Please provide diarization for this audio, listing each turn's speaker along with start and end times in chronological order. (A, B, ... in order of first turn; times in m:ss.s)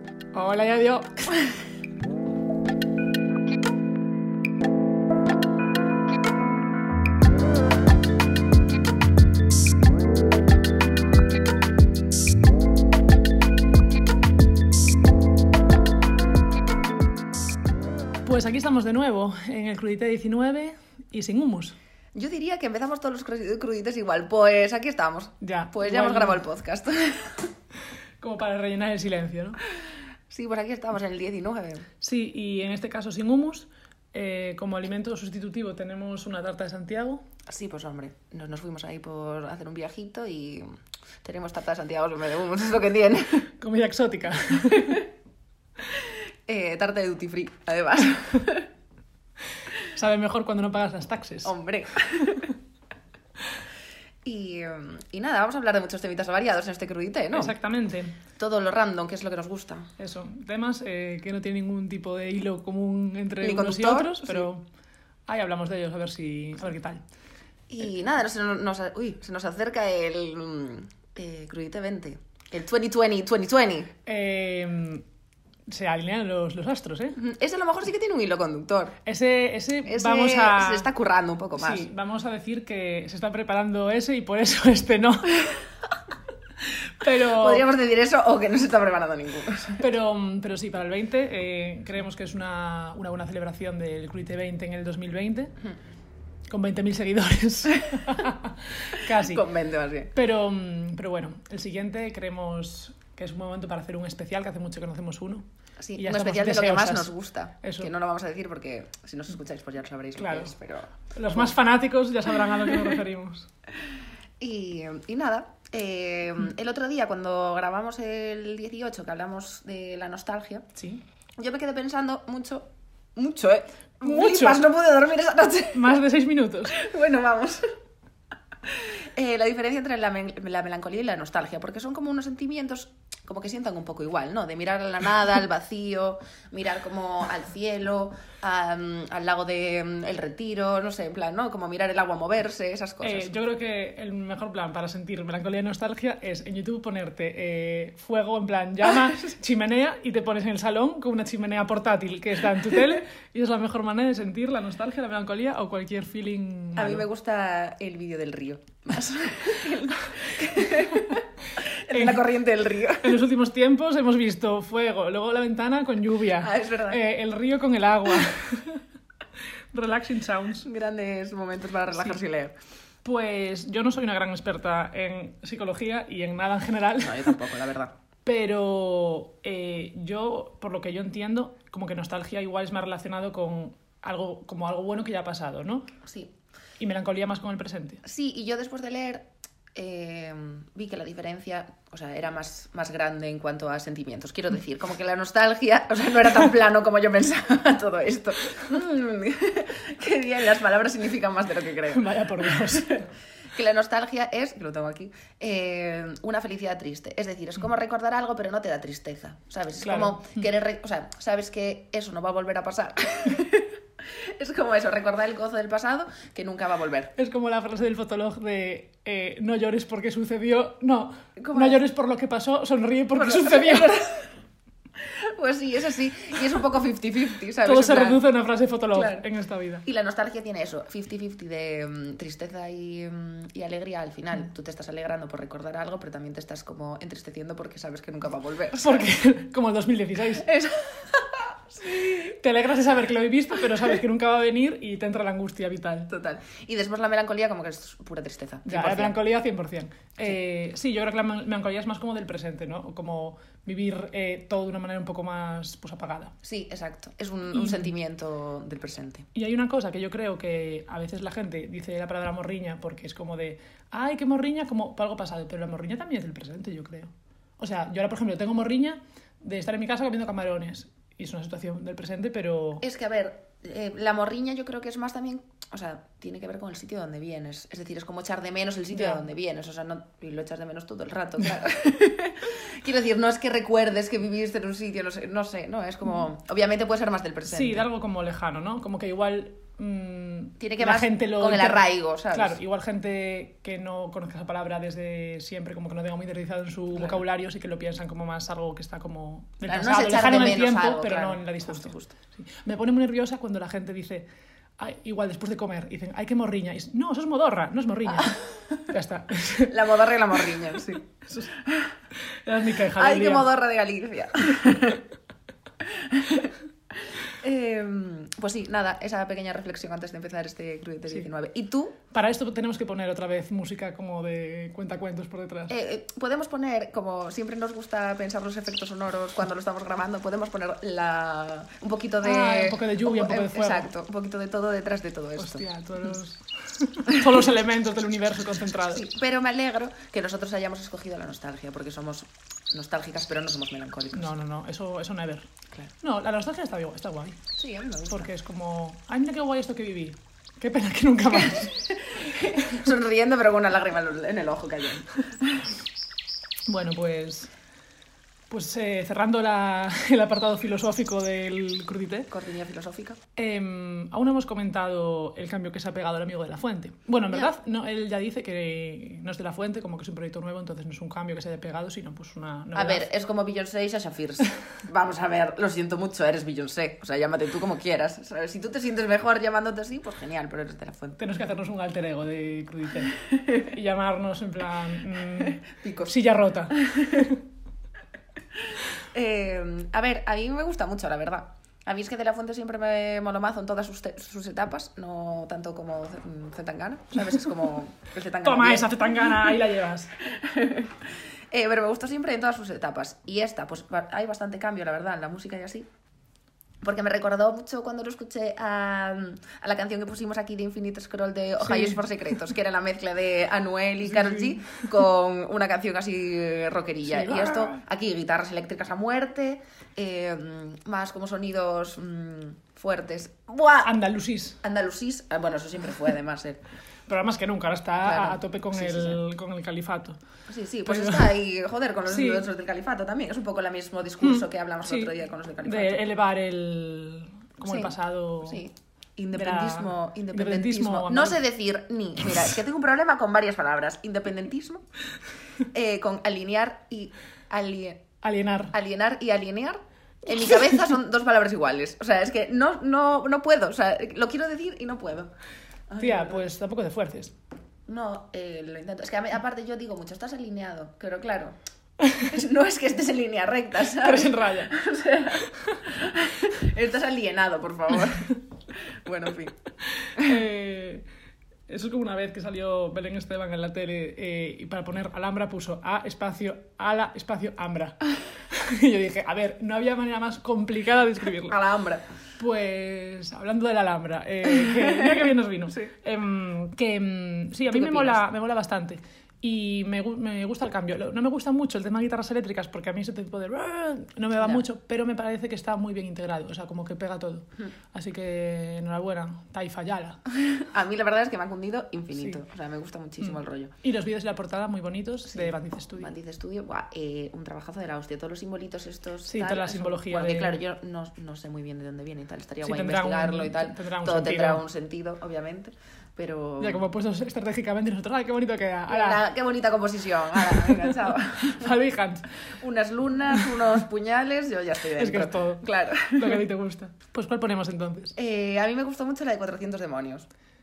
0:00.3-0:01.3 A
0:18.2-0:21.8 A
0:22.2-0:27.5 B
0:25.4-0:26.4 A
0:28.2-0:29.6 A
0:30.3-0:31.9 B
0:32.0-0:37.2 A
0:37.5-0:40.7 B
0:41.2-0:43.5 B
0:43.6-0:45.0 A
0:46.5-0:48.7 B
0:49.9-0:51.5 A
0:51.4-0:52.5 B
0:54.2-0:57.5 B
0:57.3-0:58.1 A
0:58.4-0:59.9 B
1:00.0-1:04.6 A
1:03.4-1:04.5 B
1:05.3-1:07.0 A
1:07.7-1:13.9 B
1:14.1-1:15.0 A
1:15.7-1:17.2 A
1:17.2-1:19.0 B
1:19.1-1:20.9 A
1:19.9-1:21.8 B
1:21.6-1:25.5 A
1:27.0-1:27.7 A
1:27.4-1:29.8 B
1:29.8-1:35.5 A
1:36.5-1:39.4 A
1:39.3-1:40.1 B
1:40.1-1:45.5 A
1:45.8-1:51.5 B
1:46.0-1:47.9 A
1:50.2-1:50.5 A
1:51.2-1:53.5 A
1:54.4-2:00.7 B
2:00.8-2:01.0 A
2:01.4-2:06.0 B
2:04.0-2:04.6 A
2:05.7-2:06.8 A
2:06.7-2:07.7 B
2:08.7-2:23.3 B
2:23.0-2:37.0 A
2:36.8-2:43.2 B
2:41.9-2:42.4 A
2:43.0-2:48.8 A
2:46.4-2:47.0 B
2:49.7-2:50.7 A
2:50.6-2:52.5 B
2:53.0-2:57.4 A
2:57.0-2:57.9 B
2:58.3-3:05.9 A
3:06.1-3:06.3 B
3:06.8-3:08.0 A
3:08.0-3:23.0 B
3:21.9-3:23.1 A
3:23.5-3:33.7 B
3:29.8-3:30.3 A
3:34.4-3:37.1 B
3:37.2-3:44.1 A
3:41.4-3:41.8 B
3:43.2-3:44.2 B
3:45.1-3:48.2 B
3:47.6-3:49.8 A
3:48.9-3:49.2 B
3:49.8-3:59.1 B
3:58.8-4:00.5 A
4:00.4-4:02.1 B
4:01.9-4:06.1 A
4:06.1-4:09.2 B
4:08.7-4:16.3 A
4:16.4-4:19.2 B
4:17.5-4:17.9 A
4:19.4-4:32.8 A
4:32.8-4:47.9 B
4:39.0-4:39.2 A
4:47.5-5:04.3 A
4:50.6-4:52.6 B
4:56.9-4:57.2 B
4:59.6-5:02.2 B
5:04.8-5:09.8 A
5:09.7-5:11.0 B
5:11.2-5:11.5 A
5:12.4-5:13.5 A
5:13.0-5:15.0 B
5:16.1-5:16.5 B
5:17.3-5:22.0 B
5:22.1-5:25.7 A
5:25.7-5:35.6 B
5:32.2-5:33.9 A
5:35.4-5:39.0 A
5:38.9-5:44.3 B
5:44.2-5:45.5 A
5:46.0-5:47.4 A
5:47.6-5:48.3 B
5:48.1-5:51.8 A
5:52.1-5:55.2 B
5:56.7-5:57.5 A
5:58.5-6:02.3 A
6:02.3-6:03.2 B
6:03.4-6:13.1 A
6:12.7-6:21.2 B
6:21.2-6:27.3 A
6:25.7-6:26.1 B
6:29.1-6:38.9 B
6:38.4-6:40.1 A
6:40.4-6:40.9 B
6:41.5-6:45.9 B
6:46.8-7:03.9 B
6:51.6-6:52.0 A
6:54.1-6:54.5 A
6:57.1-6:57.8 A
7:03.8-7:04.6 A
7:04.6-7:06.6 B
7:07.1-7:10.2 A
7:08.0-7:09.2 B
7:10.5-7:16.0 B
7:10.9-7:11.4 A
7:12.1-7:12.5 A
7:14.2-7:15.1 A
7:15.6-7:18.6 A
7:17.6-7:24.8 B
7:19.3-7:21.4 A
7:25.7-7:28.1 B
7:28.2-7:28.7 A
7:28.7-7:35.3 B
7:35.9-7:36.5 B
7:36.0-7:37.3 A
7:37.9-7:41.6 B
7:42.2-7:48.3 B
7:44.0-7:44.8 A
7:49.0-7:49.5 B
7:50.2-7:51.0 A
7:51.7-7:58.0 A
7:58.5-8:01.6 A
8:01.5-8:02.0 B
8:02.4-8:20.2 A
8:04.7-8:05.1 B
8:07.7-8:08.2 B
8:14.4-8:14.6 B
8:20.5-8:23.7 B
8:23.2-8:26.1 A
8:25.3-8:36.8 B
8:29.3-8:30.6 A
8:32.6-8:34.6 A
8:36.6-8:39.2 A
8:38.9-8:41.7 B
8:40.5-8:42.3 A
8:42.6-8:46.4 B
8:45.0-8:48.2 A
8:48.2-8:50.3 B